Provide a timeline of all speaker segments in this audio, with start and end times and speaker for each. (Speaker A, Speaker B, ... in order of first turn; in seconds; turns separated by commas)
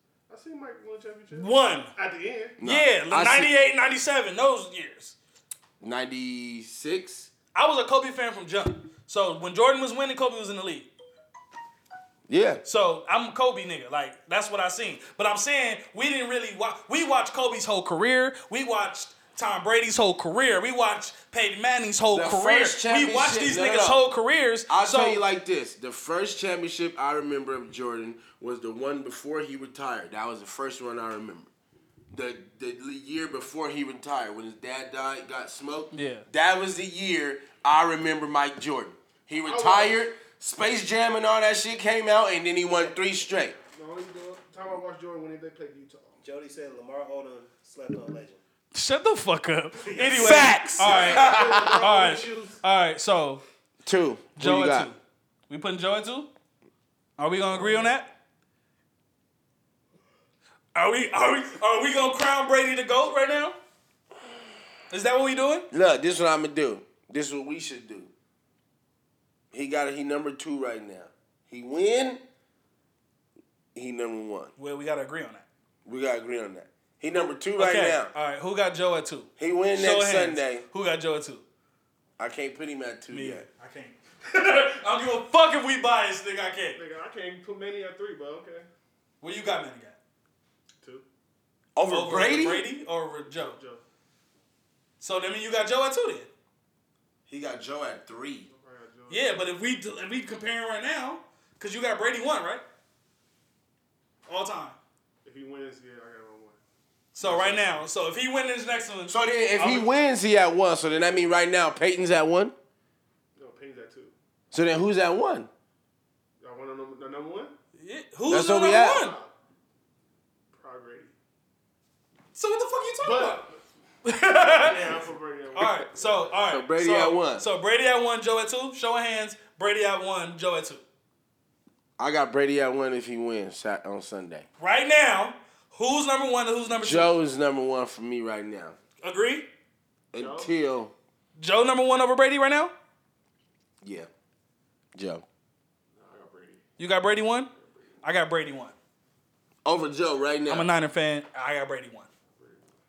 Speaker A: 0.3-2.6, Speaker B: 1.3-1.9, Speaker C: 2.6-3.5, Speaker B: 2.6-5.2, Speaker C: 5.8-7.3, Speaker B: 7.5-10.9, Speaker C: 12.3-12.6, Speaker B: 12.6-25.2, Speaker C: 22.1-24.0, Speaker C: 24.7-31.5, Speaker C: 32.1-43.5, Speaker B: 35.9-36.2, Speaker A: 39.4-40.0, Speaker A: 43.7-46.2, Speaker D: 46.2-48.4, Speaker B: 48.7-53.4, Speaker A: 49.9-52.6, Speaker C: 50.1-51.9, Speaker C: 53.8-54.9, Speaker B: 54.4-55.0, Speaker B: 55.5-56.3, Speaker B: 57.2-58.1, Speaker B: 60.7-63.6, Speaker B: 64.9-65.7, Speaker C: 65.7-68.1, Speaker C: 69.5-72.2, Speaker C: 73.7-74.5, Speaker B: 74.6-75.5, Speaker C: 75.8-78.1, Speaker B: 77.6-81.4, Speaker C: 79.4-80.6, Speaker C: 82.2-83.4, Speaker B: 83.1-86.8, Speaker A: 86.8-88.7, Speaker B: 89.2-90.0, Speaker C: 91.7-92.7, Speaker B: 91.8-93.6, Speaker A: 93.3-93.8, Speaker B: 95.0-96.3, Speaker C: 97.3-98.5, Speaker A: 98.5-99.5, Speaker B: 99.1-102.6, Speaker B: 104.3-104.8, Speaker A: 105.2-106.6, Speaker B: 107.1-109.9, Speaker A: 107.2-107.8, Speaker C: 109.1-112.5, Speaker A: 113.3-114.1, Speaker C: 114.5-115.5, Speaker A: 116.4-117.5, Speaker B: 117.7-119.2, Speaker C: 118.3-119.0, Speaker A: 118.8-119.3, Speaker A: 120.5-121.1, Speaker B: 122.3-123.5, Speaker A: 123.0-123.6, Speaker B: 124.0-130.8, Speaker A: 124.5-126.3, Speaker C: 126.5-127.5, Speaker C: 132.0-134.4, Speaker B: 134.6-137.1, Speaker C: 136.7-138.8, Speaker B: 139.0-139.5, Speaker C: 140.1-140.9, Speaker A: 140.1-140.5, Speaker B: 141.4-142.7, Speaker C: 143.8-144.1, Speaker C: 144.9-145.2, Speaker A: 145.9-146.6, Speaker B: 146.8-147.5, Speaker B: 148.0-148.7, Speaker C: 149.6-150.7, Speaker B: 150.5-152.1, Speaker A: 152.4-152.7